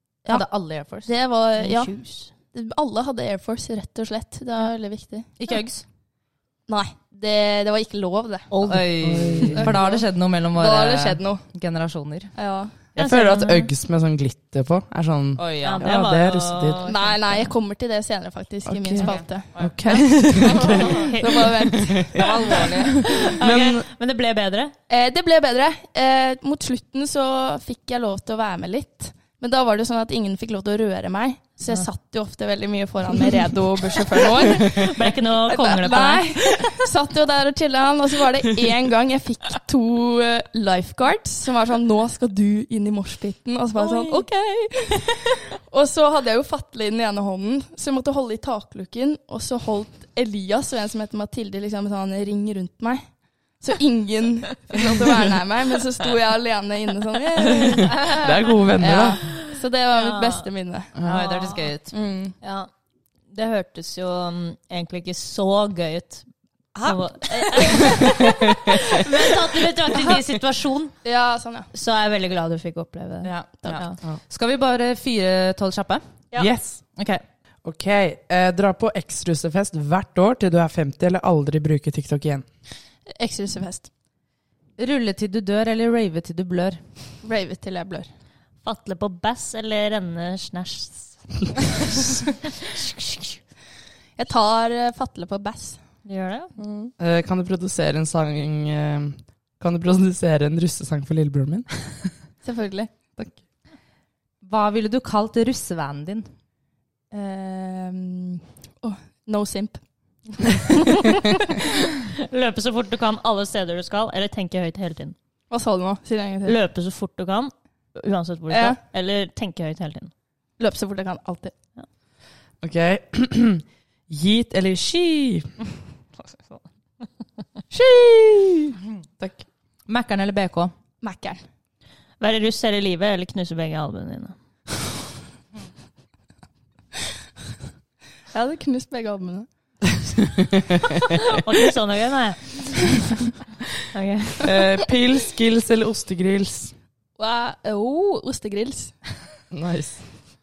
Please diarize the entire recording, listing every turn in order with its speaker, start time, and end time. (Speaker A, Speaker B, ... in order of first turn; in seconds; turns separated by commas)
Speaker A: 0.3-1.1, Speaker B: 1.0-1.9, Speaker C: 1.6-2.3, Speaker B: 2.5-5.3, Speaker A: 5.4-5.8, Speaker B: 6.7-8.5, Speaker C: 8.5-9.8, Speaker A: 8.7-12.3, Speaker D: 8.8-9.8, Speaker B: 9.6-11.4, Speaker B: 12.3-12.7, Speaker C: 12.9-13.7, Speaker D: 12.9-16.8, Speaker A: 15.4-15.8, Speaker C: 15.6-17.5, Speaker B: 16.8-22.7, Speaker D: 18.6-22.2, Speaker A: 19.0-19.7, Speaker C: 20.5-24.7, Speaker A: 22.1-23.0, Speaker D: 23.1-23.9, Speaker B: 24.9-53.0, Speaker C: 34.3-36.6, Speaker C: 43.8-44.3, Speaker B: 53.6-58.2, Speaker D: 57.5-59.2, Speaker B: 58.8-60.9, Speaker C: 59.3-60.5, Speaker D: 61.0-61.2, Speaker C: 61.0-61.7, Speaker A: 61.0-61.9, Speaker B: 61.9-62.3, Speaker C: 62.4-62.7, Speaker C: 63.3-66.3, Speaker C: 66.8-70.9, Speaker D: 68.1-68.9, Speaker B: 71.0-71.7, Speaker C: 71.7-74.0, Speaker A: 73.2-76.0, Speaker D: 76.3-76.8, Speaker A: 77.0-77.2, Speaker D: 77.6-82.4, Speaker B: 83.2-83.9, Speaker A: 84.8-86.8, Speaker B: 87.2-88.1, Speaker C: 88.6-93.3, Speaker B: 94.2-95.8, Speaker C: 96.0-96.5, Speaker B: 96.6-96.9, Speaker D: 97.0-102.1, Speaker B: 102.4-102.9, Speaker A: 104.4-106.3, Speaker B: 107.1-109.8, Speaker B: 110.4-111.4, Speaker C: 110.9-115.1, Speaker B: 115.5-116.6, Speaker C: 116.4-120.1, Speaker B: 118.5-118.8, Speaker B: 120.6-121.5, Speaker D: 122.6-125.5, Speaker B: 127.9-128.7, Speaker A: 129.9-130.7, Speaker B: 131.0-131.4, Speaker C: 132.2-134.3, Speaker B: 138.3-139.5, Speaker D: 140.4-141.0, Speaker C: 141.2-143.0, Speaker C: 143.9-144.6, Speaker D: 144.4-146.7, Speaker B: 147.2-148.9, Speaker D: 149.5-150.0